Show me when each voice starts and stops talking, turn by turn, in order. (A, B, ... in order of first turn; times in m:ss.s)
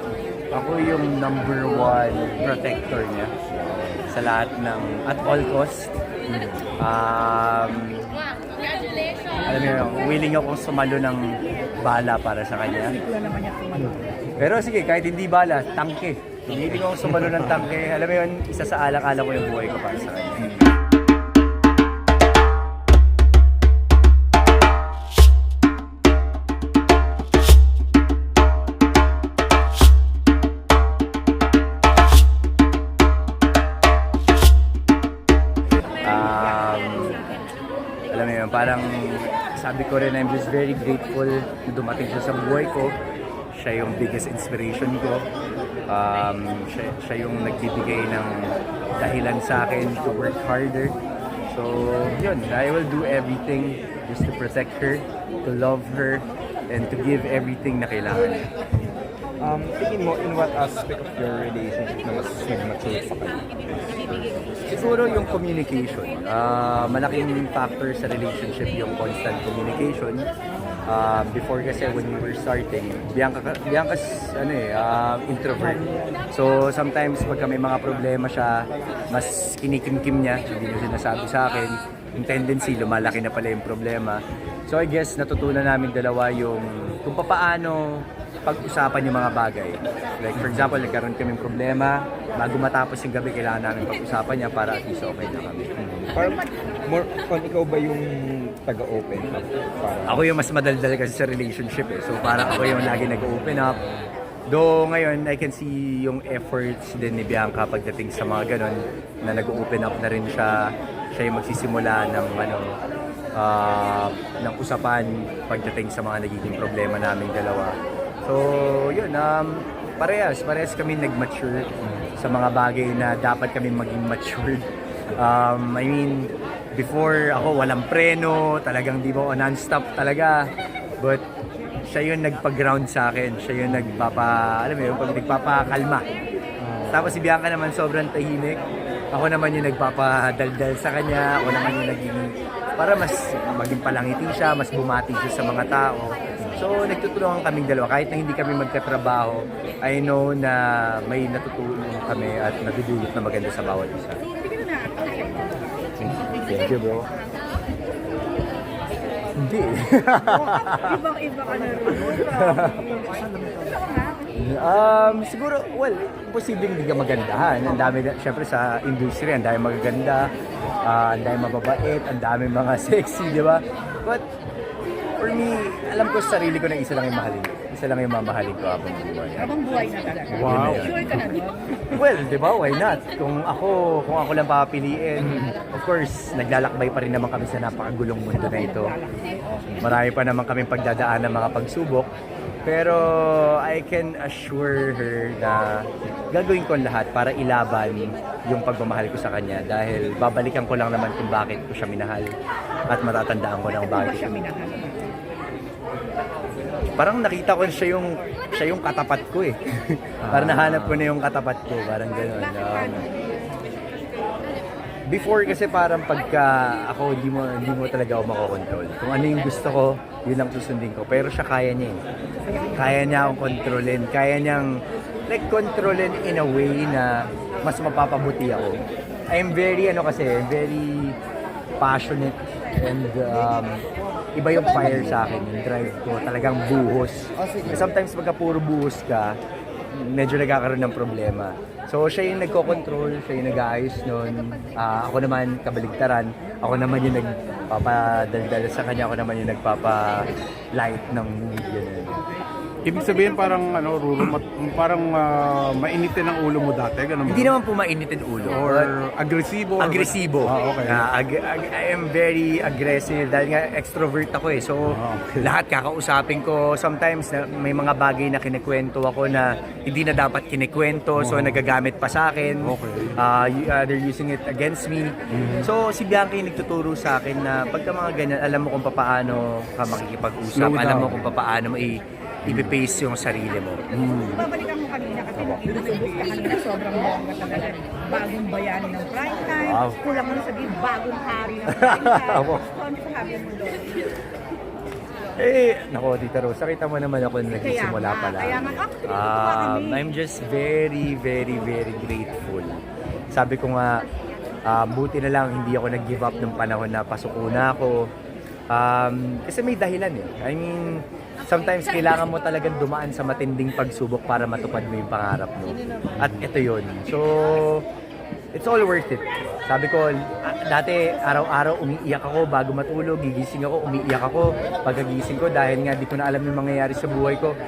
0:00.5-0:03.3 A
0:04.1-0:05.9 A
0:06.8-0:08.1 A
0:09.4-0:11.2 A
0:11.8-0:13.0 A
0:12.8-0:14.1 B
0:14.4-0:20.6 A
0:36.0-0:37.2 A
0:38.1-0:43.0 A
0:43.5-0:45.2 A
0:45.9-0:51.0 A
0:51.5-0:58.5 A
0:59.4-1:04.5 C
1:04.7-1:10.2 A
1:10.9-1:35.7 A
1:35.8-1:40.2 C
1:40.0-1:43.8 A
1:44.5-1:52.7 A
1:53.4-2:10.4 A
2:11.9-2:16.0 A
2:16.6-2:17.1 D
2:16.9-2:18.6 A
2:19.1-2:34.2 A
2:34.3-2:37.4 B
2:36.0-2:37.1 A
2:39.3-2:41.0 A
2:40.2-2:44.3 B
2:41.9-2:42.8 A
2:44.3-2:50.3 A
2:50.8-2:54.2 A
2:55.2-2:59.5 A
2:59.4-3:02.0 B
3:00.3-3:01.2 A
3:00.4-3:01.1 D
3:01.9-3:09.0 A
3:08.3-3:09.8 B
3:09.8-3:12.1 A
3:12.6-3:22.3 A
3:22.9-3:24.4 A
3:23.8-3:25.0 B
3:27.0-3:33.0 A
3:30.2-3:31.0 D
3:32.2-3:33.4 B
3:35.1-3:42.0 A
3:42.7-3:44.7 A
3:45.3-3:48.8 A
3:49.3-3:51.2 A
3:51.8-3:53.8 A
3:54.3-3:59.3 A
3:59.9-4:12.2 A
4:12.8-4:17.5 D
4:17.2-4:18.9 A
4:18.4-4:21.1 D
4:19.8-4:24.9 A
4:24.9-4:25.5 D
4:25.4-4:43.9 A
4:31.2-4:31.6 D
4:32.6-4:33.2 D
4:35.3-4:35.7 D
4:40.6-4:41.3 D
4:43.9-4:44.4 D
4:44.1-4:54.2 B
4:49.6-4:50.0 A
4:51.7-4:52.6 A
4:55.4-5:02.8 A
4:57.5-5:00.1 B
5:03.3-5:04.0 A
5:04.7-5:08.1 A
5:08.7-5:17.8 A
5:18.5-5:27.5 A